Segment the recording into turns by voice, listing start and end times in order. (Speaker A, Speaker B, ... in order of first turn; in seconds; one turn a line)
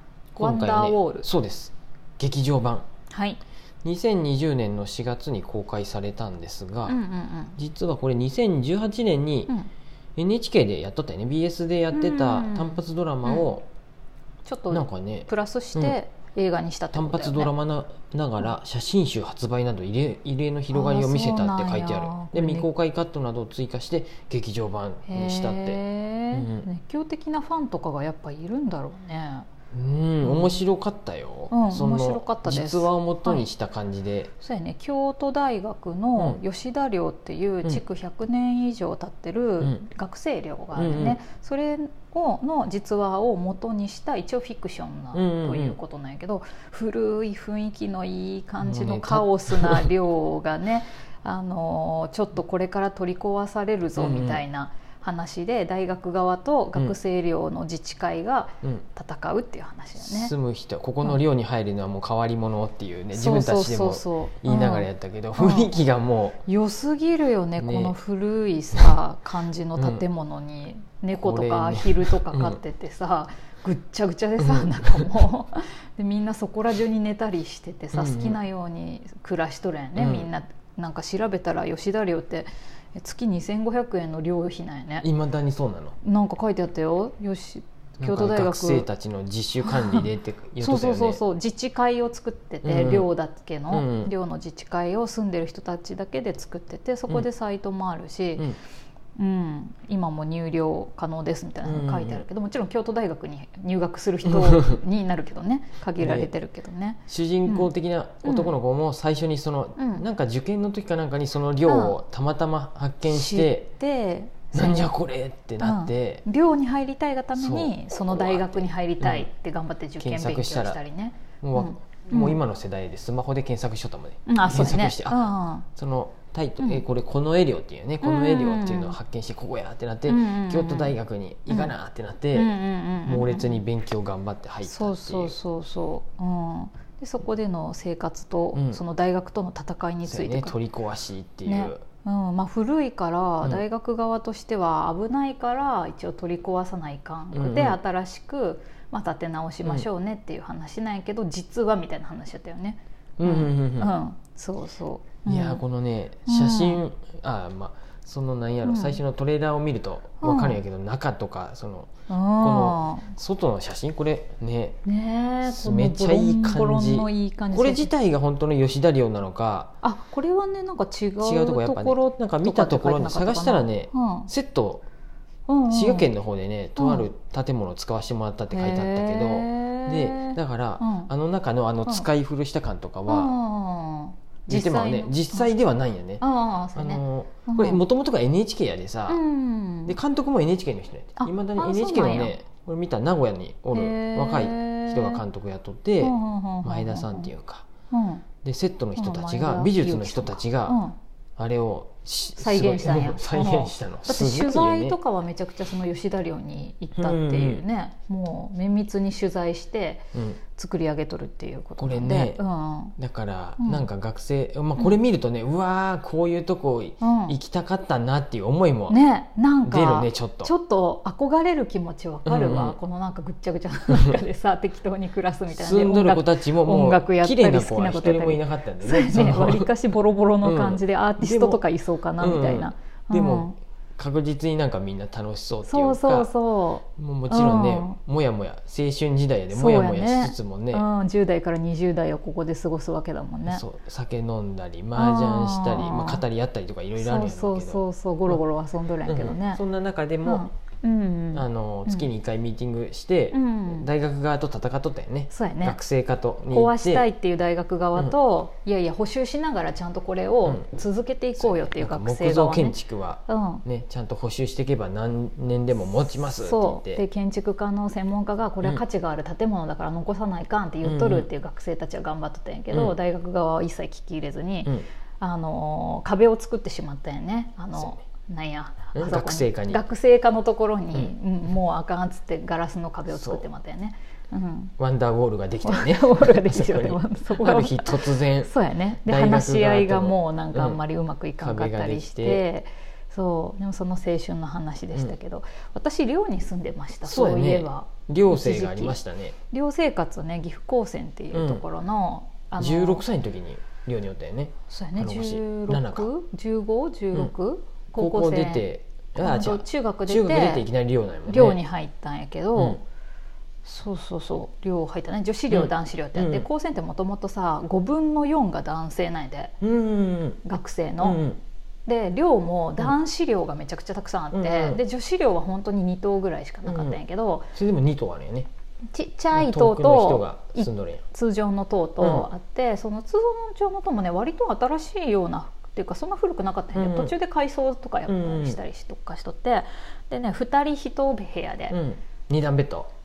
Speaker A: 0.3-1.3
Speaker B: 0.4-2.9
Speaker A: 3.1-3.4
Speaker B: 3.8-7.0
Speaker A: 6.9-7.6
Speaker B: 7.5-9.5
Speaker B: 10.2-13.6
Speaker A: 11.9-13.5
Speaker A: 14.4-17.5
Speaker B: 14.7-16.0
Speaker B: 16.9-26.7
Speaker A: 20.7-22.7
Speaker A: 25.1-29.5
Speaker B: 29.7-34.3
Speaker A: 30.2-30.6
Speaker A: 31.5-33.5
Speaker A: 34.4-60.3
Speaker B: 40.8-41.2
Speaker B: 45.1-45.8
Speaker B: 48.6-49.9
Speaker B: 54.0-54.4
Speaker B: 60.0-66.4
Speaker A: 63.1-65.7
Speaker A: 66.5-85.1
Speaker B: 67.6-67.9
Speaker B: 69.8-70.0
Speaker B: 71.1-72.6
Speaker B: 74.4-75.1
Speaker B: 77.9-78.4
Speaker B: 80.0-80.3
Speaker B: 85.0-86.0
Speaker A: 86.0-88.8
Speaker B: 88.0-91.2
Speaker A: 89.6-90.1
Speaker A: 90.6-98.5
Speaker B: 92.6-93.1
Speaker B: 93.7-94.1
Speaker A: 99.2-107.7
Speaker B: 101.6-102.2
Speaker B: 104.4-104.7
Speaker B: 106.0-106.3
Speaker B: 107.1-113.7
Speaker A: 108.2-108.5
Speaker A: 109.8-110.0
Speaker A: 111.7-112.0
Speaker A: 113.1-114.9
Speaker B: 114.5-116.2
Speaker A: 115.6-122.4
Speaker B: 117.3-119.3
Speaker B: 120.0-120.8
Speaker B: 121.4-132.5
Speaker A: 124.3-125.7
Speaker A: 128.0-128.9
Speaker A: 130.1-130.9
Speaker A: 131.5-131.7
Speaker A: 132.3-133.6
Speaker B: 133.1-135.3
Speaker A: 134.6-140.6
Speaker B: 138.5-138.8
Speaker B: 140.0-141.8
Speaker A: 141.4-155.6
Speaker B: 147.3-147.8
Speaker B: 153.2-153.9
Speaker B: 155.2-164.8
Speaker A: 156.2-156.8
Speaker A: 158.6-159.0
Speaker A: 160.2-160.6
Speaker A: 162.1-163.1
Speaker A: 164.8-167.9
Speaker B: 165.4-169.7
Speaker A: 169.8-174.3
Speaker B: 171.2-174.8
Speaker A: 175.5-176.1
Speaker B: 175.7-183.3
Speaker A: 176.8-177.1
Speaker A: 178.5-181.1
Speaker A: 183.1-185.5
Speaker B: 184.5-189.2
Speaker A: 186.2-187.8
Speaker A: 189.1-190.0
Speaker B: 189.9-197.7
Speaker A: 191.2-192.4
Speaker A: 193.7-195.2
Speaker A: 196.0-197.3
Speaker A: 197.9-198.2
Speaker B: 198.4-200.8
Speaker A: 198.9-201.0
Speaker B: 201.4-205.0
Speaker A: 202.4-210.0
Speaker B: 206.9-207.6
Speaker B: 210.1-210.4
Speaker A: 210.6-212.9
Speaker B: 211.8-212.4
Speaker B: 212.9-219.0
Speaker A: 213.6-213.9
Speaker A: 217.0-217.3
Speaker A: 218.9-233.6
Speaker B: 219.6-220.5
Speaker B: 222.2-222.8
Speaker B: 225.5-229.7
Speaker B: 230.4-231.6
Speaker B: 232.2-236.3
Speaker A: 235.7-237.9
Speaker B: 236.9-240.8
Speaker A: 239.5-243.6
Speaker B: 243.5-248.4
Speaker A: 244.9-246.2
Speaker A: 247.0-249.6
Speaker B: 249.1-250.4
Speaker A: 250.2-252.1
Speaker B: 251.3-257.1
Speaker A: 253.3-253.9
Speaker A: 255.3-255.8
Speaker A: 256.5-262.8
Speaker B: 261.4-267.0
Speaker A: 263.3-263.6
Speaker A: 266.3-284.7
Speaker B: 270.8-271.3
Speaker B: 278.9-279.8
Speaker B: 283.1-283.4
Speaker B: 284.8-288.5
Speaker A: 285.6-299.0
Speaker B: 289.0-290.8
Speaker B: 291.4-292.4
Speaker B: 297.0-299.3
Speaker A: 299.5-303.0
Speaker B: 301.3-301.6
Speaker B: 302.6-306.1
Speaker A: 304.7-308.7
Speaker B: 307.9-311.6
Speaker A: 309.2-310.6
Speaker A: 311.3-312.8
Speaker B: 312.5-312.8
Speaker A: 313.6-319.5
Speaker B: 315.5-316.4
Speaker B: 319.6-320.4
Speaker A: 320.4-321.2
Speaker B: 321.0-321.4
Speaker A: 321.9-327.5
Speaker B: 324.3-324.8
Speaker B: 326.6-327.0
Speaker B: 327.5-328.5
Speaker A: 328.9-341.8
Speaker B: 329.3-331.0
Speaker B: 332.0-332.3
Speaker B: 336.7-337.1
Speaker B: 338.1-338.6
Speaker B: 341.7-342.9